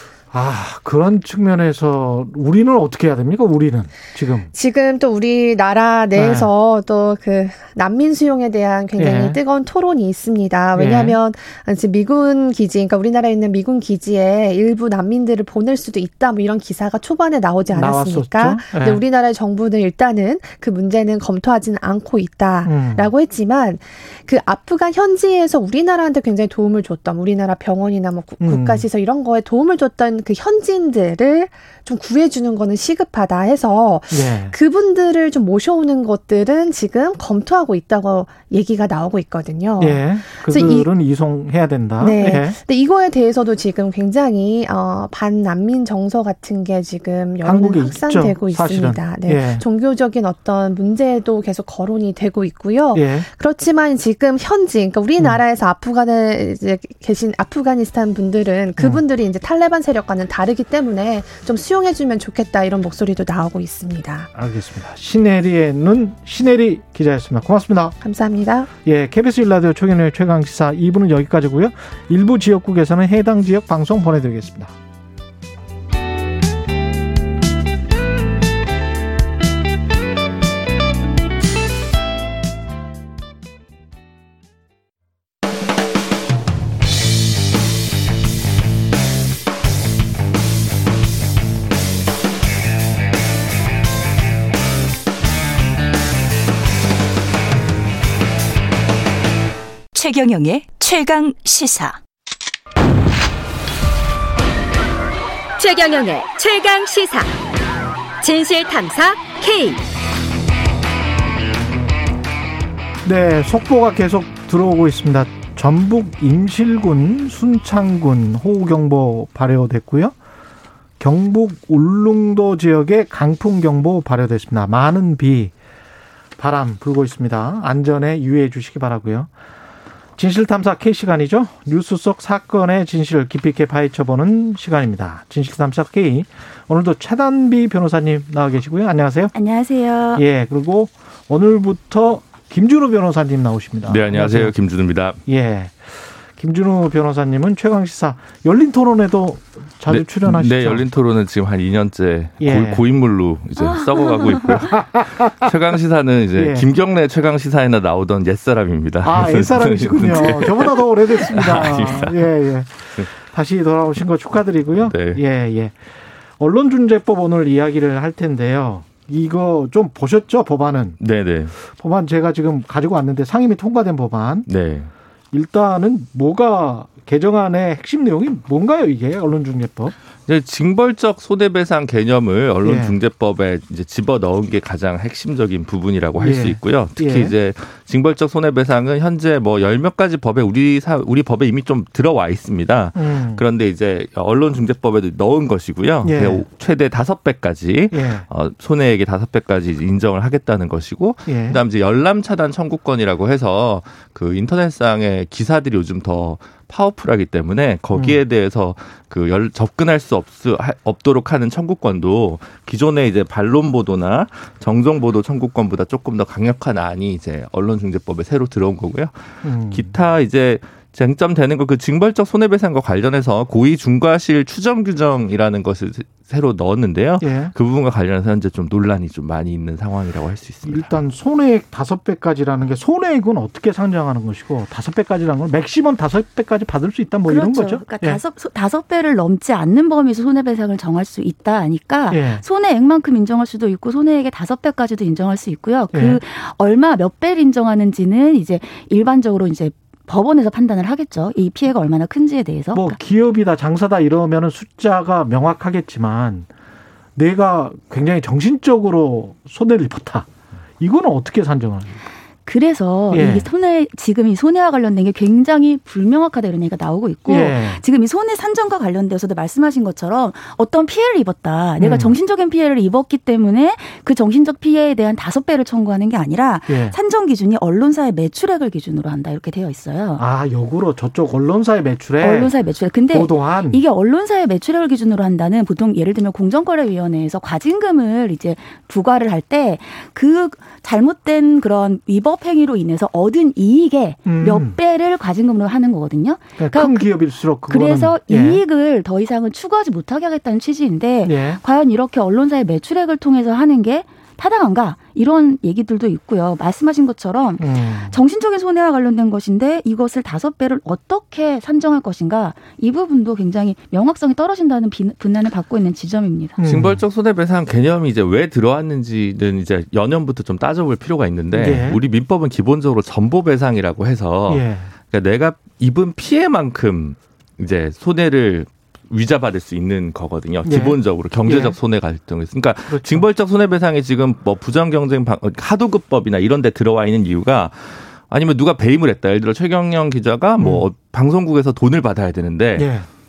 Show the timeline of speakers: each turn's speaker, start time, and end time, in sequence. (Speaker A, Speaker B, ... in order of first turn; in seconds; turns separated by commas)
Speaker A: 0.3-4.5, Speaker B: 4.5-40.9, Speaker A: 6.2-6.5, Speaker A: 9.0-9.4, Speaker A: 10.8-11.2, Speaker A: 17.7-19.0, Speaker A: 22.6-23.1, Speaker A: 28.4-28.9, Speaker A: 34.1-34.5, Speaker A: 39.8-42.6, Speaker B: 42.0-64.3, Speaker A: 47.4-49.6, Speaker A: 52.9-53.3, Speaker A: 64.3-68.0, Speaker B: 68.0-68.7, Speaker A: 68.8-74.7, Speaker C: 99.9-102.0, Speaker D: 105.6-107.3, Speaker D: 108.2-109.8, Speaker A: 113.0-120.2, Speaker A: 121.0-125.5, Speaker A: 126.4-129.3, Speaker A: 130.2-139.3, Speaker E: 139.3-140.3, Speaker A: 140.2-144.6, Speaker F: 143.9-145.2, Speaker A: 145.2-150.9, Speaker F: 149.9-162.3, Speaker A: 152.4-152.8, Speaker E: 153.6-154.4, Speaker A: 154.5-155.5, Speaker A: 156.3-156.7, Speaker A: 159.0-165.8, Speaker F: 164.8-165.2, Speaker A: 166.4-171.0, Speaker F: 171.0-171.5, Speaker A: 171.6-174.5, Speaker F: 174.5-174.9, Speaker A: 175.3-179.9, Speaker F: 180.3-231.0, Speaker A: 182.6-182.9, Speaker A: 186.2-187.3, Speaker A: 192.9-193.4, Speaker A: 196.0-196.5, Speaker A: 197.9-198.3, Speaker A: 201.3-201.6, Speaker A: 207.9-208.2, Speaker A: 219.4-219.9, Speaker A: 227.2-227.5, Speaker A: 230.7-238.2, Speaker E: 237.2-253.0, Speaker A: 242.1-242.4, Speaker A: 245.9-246.2, Speaker A: 252.7-256.5, Speaker A: 257.2-260.3, Speaker A: 260.8-262.0, Speaker E: 262.5-280.2, Speaker A: 263.1-263.5, Speaker A: 267.3-267.8, Speaker A: 271.8-272.1, Speaker A: 276.7-276.9, Speaker A: 280.2-282.5, Speaker E: 282.2-316.6, Speaker A: 283.1-283.8, Speaker A: 294.3-294.7, Speaker A: 296.6-298.6, Speaker A: 301.3-301.6, Speaker A: 307.6-308.1, Speaker A: 316.6-317.0, Speaker F: 316.6-342.9, Speaker A: 321.5-322.0, Speaker A: 324.5-324.9, Speaker A: 330.6-331.8, Speaker A: 332.9-333.2, Speaker A: 340.6-340.9, Speaker A: 342.8-343.1